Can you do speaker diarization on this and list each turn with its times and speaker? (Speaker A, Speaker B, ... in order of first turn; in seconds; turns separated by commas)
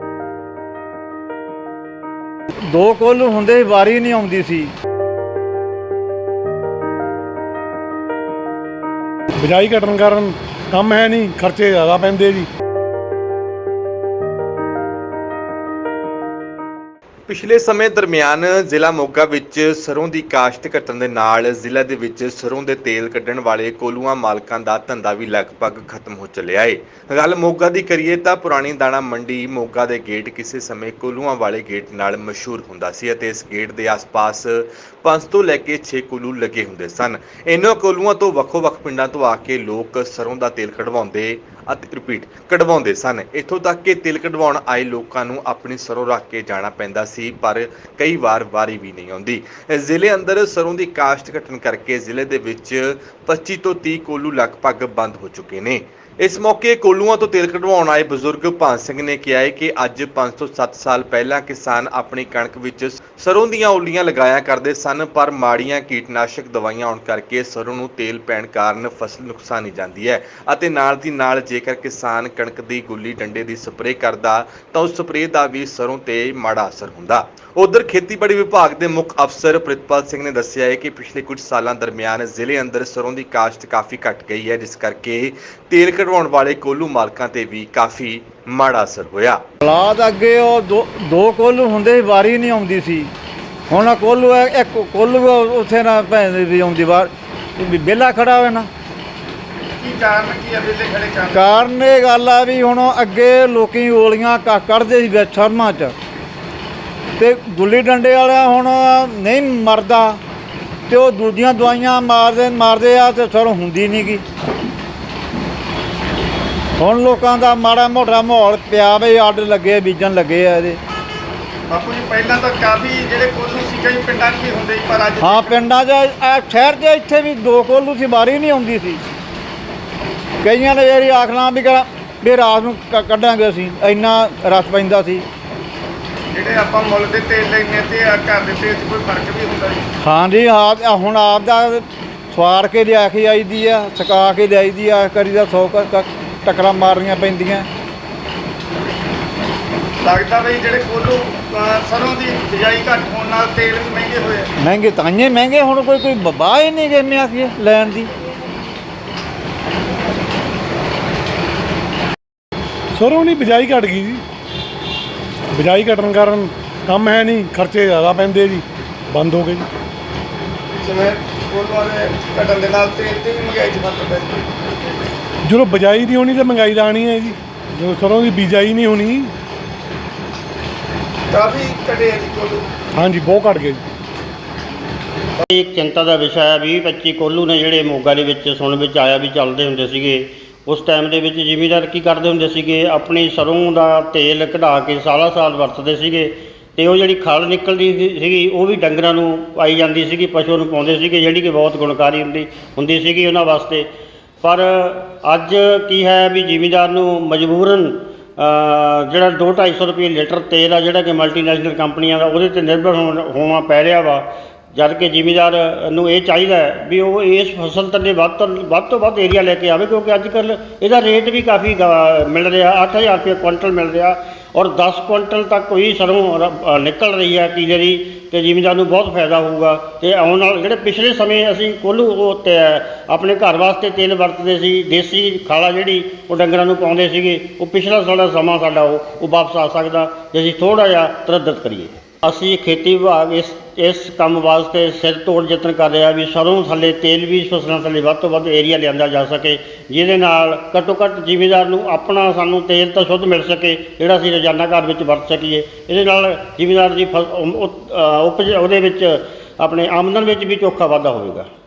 Speaker A: 2.6-4.7, Speaker B: 9.4-12.5, Speaker C: 17.3-89.4, Speaker A: 89.6-93.1, Speaker A: 93.7-98.7, Speaker D: 99.8-101.5, Speaker A: 101.3-105.9, Speaker A: 107.2-110.2, Speaker A: 110.9-114.2, Speaker A: 116.8-120.8, Speaker D: 121.7-125.6, Speaker A: 125.2-129.0, Speaker A: 130.4-135.2, Speaker D: 136.3-139.8, Speaker A: 140.0-147.7, Speaker D: 150.0-154.5, Speaker A: 154.6-158.1, Speaker B: 162.9-164.2, Speaker B: 165.5-169.7, Speaker D: 170.8-174.4, Speaker B: 175.4-179.3, Speaker D: 181.3-182.6, Speaker B: 182.9-183.8, Speaker E: 185.4-203.9, Speaker E: 204.4-261.5